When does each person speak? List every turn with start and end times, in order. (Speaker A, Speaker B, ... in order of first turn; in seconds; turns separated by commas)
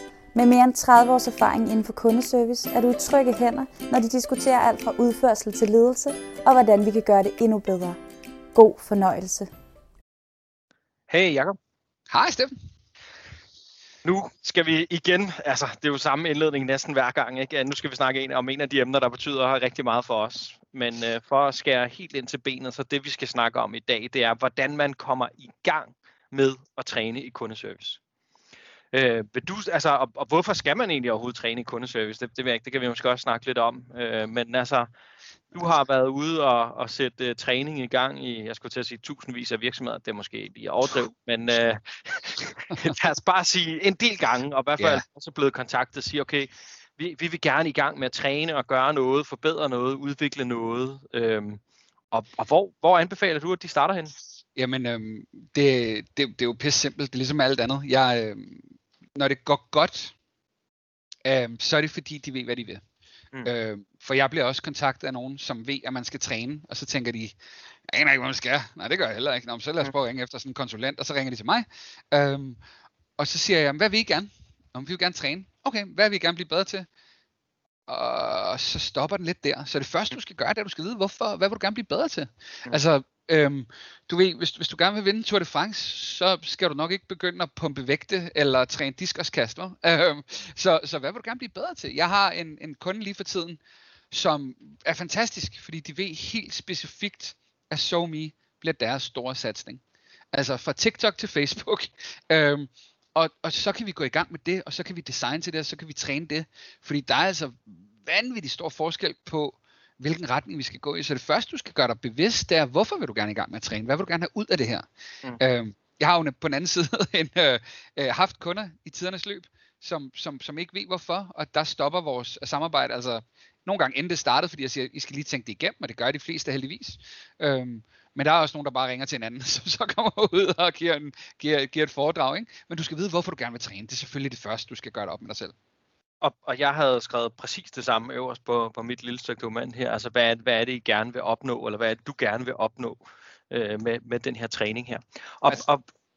Speaker A: 0.3-8.0, Speaker A: 8.5-9.5, Speaker B: 11.1-11.5, Speaker C: 12.1-12.5, Speaker B: 14.0-28.0, Speaker B: 28.9-34.9, Speaker B: 35.5-51.6, Speaker B: 52.1-54.1, Speaker C: 54.5-60.1, Speaker C: 61.2-62.8, Speaker C: 63.4-67.3, Speaker C: 67.9-72.6, Speaker C: 73.2-76.9, Speaker C: 77.9-93.6, Speaker C: 94.1-99.8, Speaker C: 100.3-114.8, Speaker C: 115.4-135.5, Speaker B: 136.2-143.0, Speaker B: 143.5-145.8